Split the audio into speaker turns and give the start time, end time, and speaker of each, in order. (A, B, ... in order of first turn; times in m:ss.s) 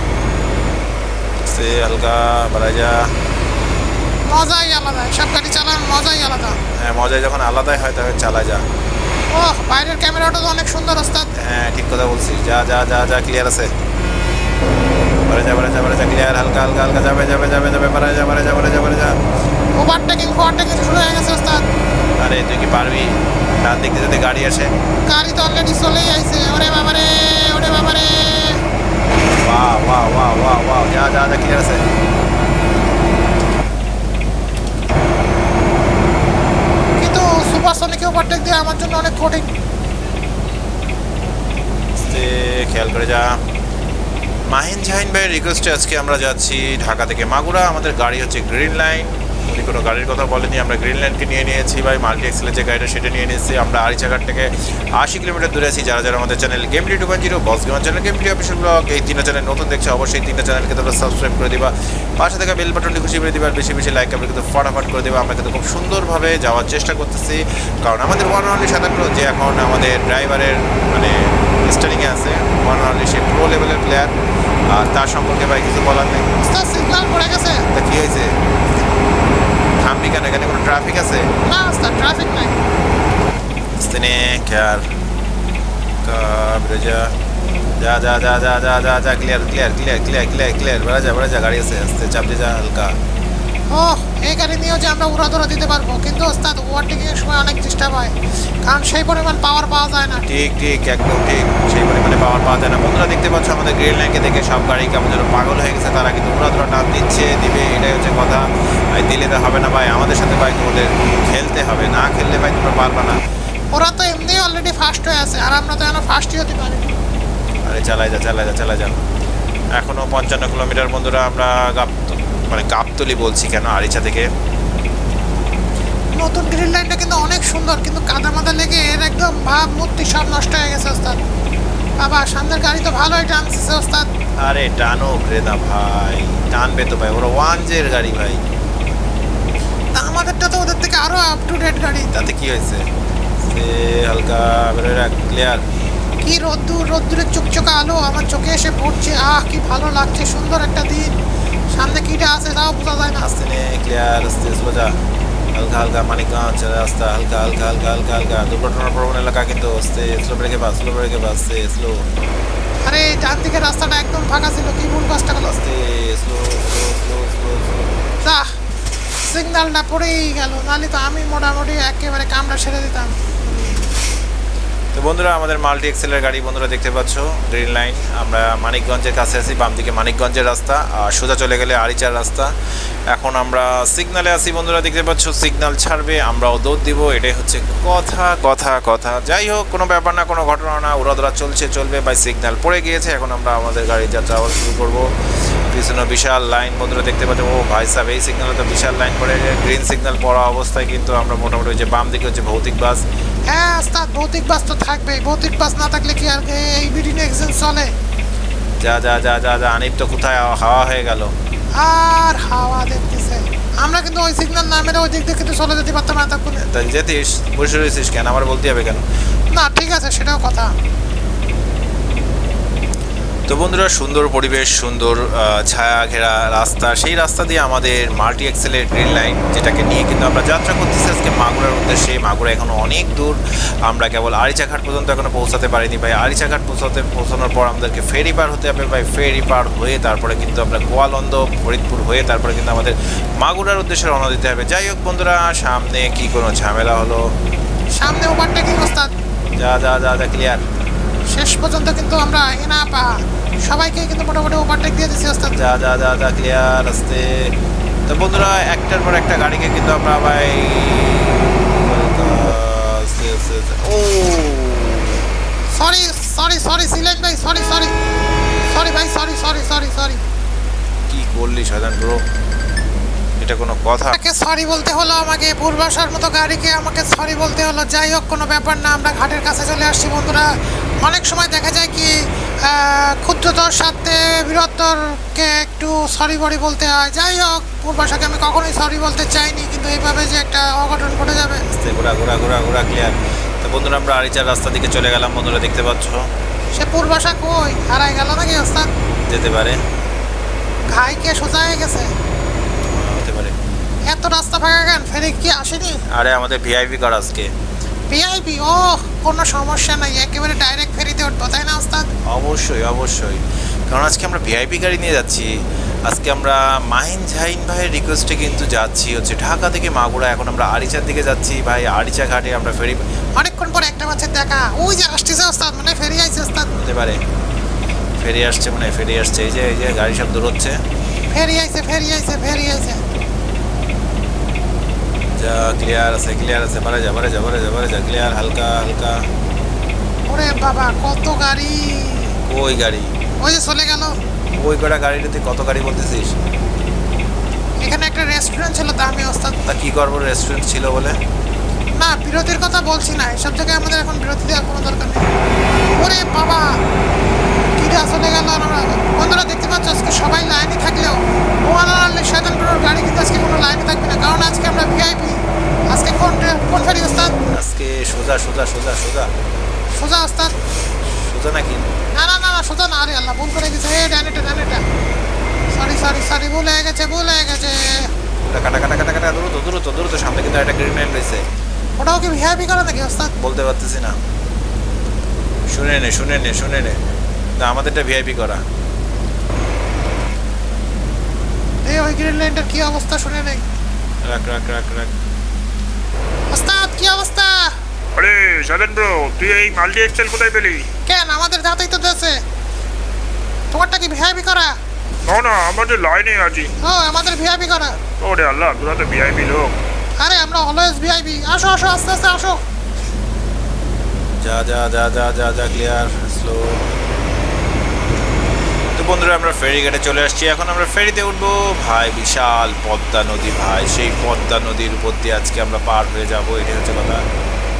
0:01.4-0:03.1 A
0:04.3-0:06.6 B
0:06.7-0:08.6 A
0:09.3-0:11.3 B
0:11.3-0:13.7 A
0:15.3-0:19.2 A
0:19.8-0:21.6 B
0:22.2-0:24.7 A
0:25.1-0:28.6 B
0:29.4-0:31.8 A
0:37.0-0:39.5 B
0:42.0-0:43.4 A
0:44.5-1:14.1 A
1:14.7-1:16.3 A
1:16.4-1:17.7 B
1:17.7-1:18.4 A
1:19.8-1:21.3 A
1:21.4-1:22.6 B
1:23.8-1:24.8 A
1:26.0-1:27.1 A
1:27.8-1:32.9 A
1:33.7-1:40.2 B
1:40.2-1:53.2 A
1:53.7-1:57.0 B
1:57.6-1:59.0 A
1:59.8-2:04.3 A
2:06.2-2:11.2 B
2:12.0-2:14.1 B
2:14.4-2:18.4 A
2:19.9-2:22.1 B
2:22.1-2:22.8 A
2:23.4-2:25.6 A
2:26.2-2:31.2 B
2:31.7-2:33.2 B
2:33.2-2:34.9 A
2:35.5-2:42.0 A
2:42.8-2:45.6 B
2:45.5-2:47.9 A
2:48.2-2:48.5 B
2:49.2-2:53.3 B
2:54.9-3:02.5 A
3:03.1-3:15.1 A
3:15.7-3:23.0 A
3:23.5-3:27.9 B
3:28.8-3:31.3 A
3:31.8-3:36.6 B
3:36.7-3:39.0 A
3:39.5-3:40.7 B
3:43.5-4:07.3 A
4:08.0-4:09.1 B
4:09.6-4:10.6 A
4:11.3-4:15.5 B
4:15.6-4:17.5 A
4:18.1-4:25.2 A
4:25.7-4:27.9 B
4:28.7-4:30.2 B
4:31.1-4:32.2 A
4:33.4-4:34.2 A
4:34.1-4:40.5 B
4:41.0-4:51.6 B
4:51.7-4:56.2 A
4:56.7-4:58.9 B
4:59.3-4:59.8 A
5:00.9-5:02.1 B
5:02.9-5:03.5 A
5:04.1-5:06.0 B
5:06.1-5:07.5 A
5:08.1-5:12.1 B
5:12.2-5:15.5 A
5:16.0-5:23.0 A
5:23.4-5:26.7 B
5:26.7-5:27.2 A
5:28.2-5:30.8 A
5:31.3-5:33.0 B
5:35.4-5:39.2 A
5:40.3-5:42.3 B
5:42.5-5:43.1 A
5:43.4-5:44.2 B
5:44.6-5:46.4 A
5:47.8-5:49.6 B
5:49.6-5:51.2 A
5:52.0-5:55.2 B
5:55.9-5:56.8 B
5:57.8-6:07.4 B
6:07.5-6:09.3 A
6:09.9-6:10.5 B
6:11.2-6:11.8 A
6:12.1-6:14.8 B
6:15.7-6:18.1 B
6:18.5-6:21.4 A
6:22.0-6:23.3 B
6:23.4-6:24.2 A
6:25.7-6:27.0 A
6:27.6-6:28.6 A
6:31.8-6:33.6 B
6:34.2-6:35.1 A
6:36.5-6:37.8 B
6:38.1-6:40.9 C
6:41.0-6:42.4 B
6:43.7-6:44.8 B
6:45.3-6:46.7 C
6:46.8-6:48.0 B
6:48.2-6:49.8 C
6:50.2-6:52.6 B
6:54.4-6:56.8 A
6:59.0-7:07.2 A